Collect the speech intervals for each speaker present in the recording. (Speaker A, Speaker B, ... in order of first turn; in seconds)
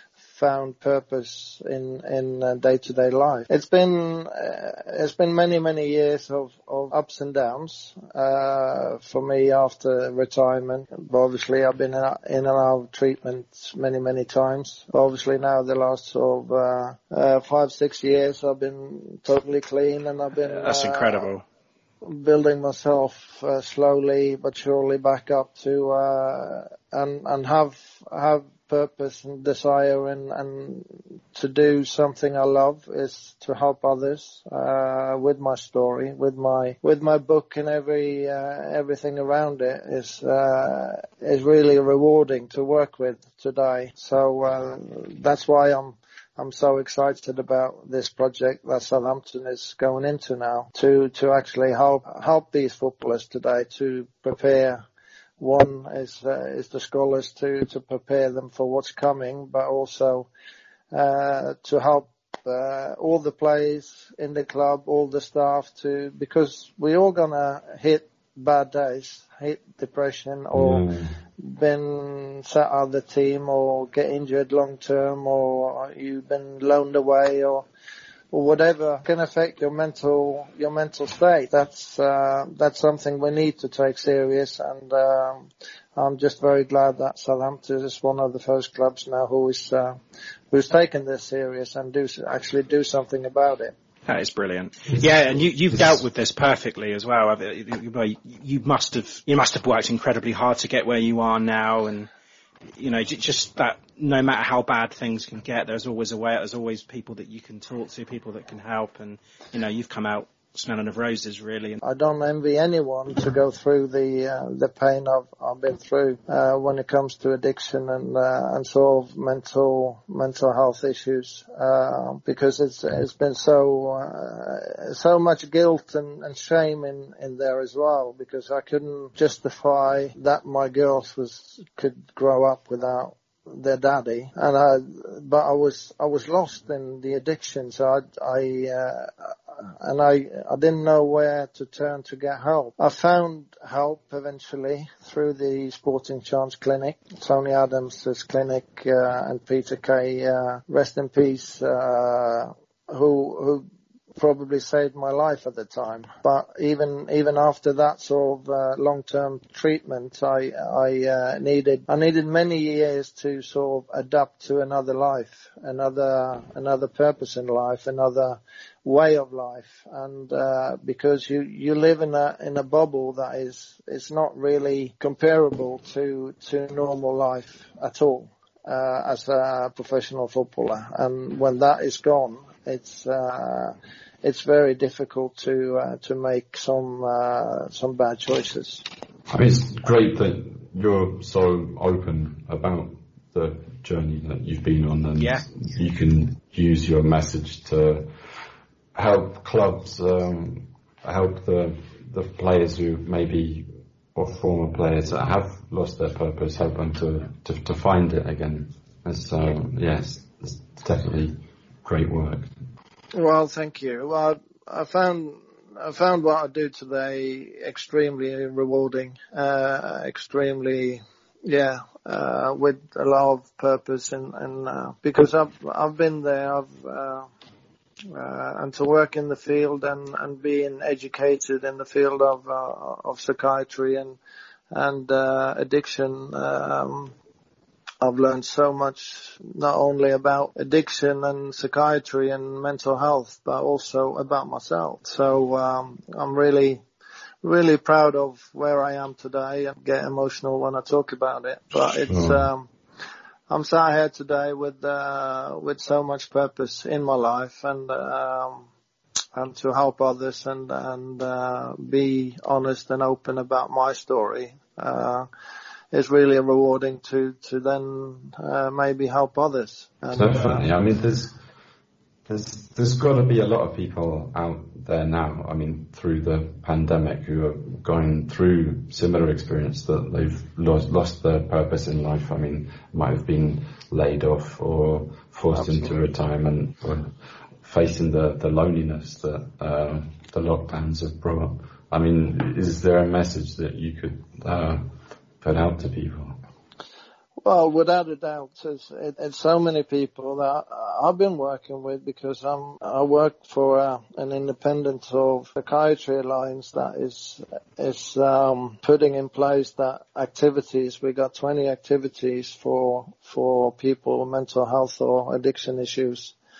Speaker A: 0.3-21.3, 22.0-54.8, 55.4-60.3, 60.9-70.8, 71.4-77.7, 78.3-90.0, 90.5-93.7, 111.8-188.8, 213.1-227.3, 228.1-234.2, 234.7-237.1, 238.0-246.8, 247.4-252.7, 253.5-258.7, 259.3-265.3, 265.9-270.7, 285.5-286.0, 297.4-316.3
Speaker B: 20.4-21.4, 94.1-102.1, 102.8-111.8, 195.2-195.4
Speaker C: 70.5-71.1, 189.3-198.1, 198.9-212.5, 252.0-252.4, 270.1-271.4, 272.3-296.4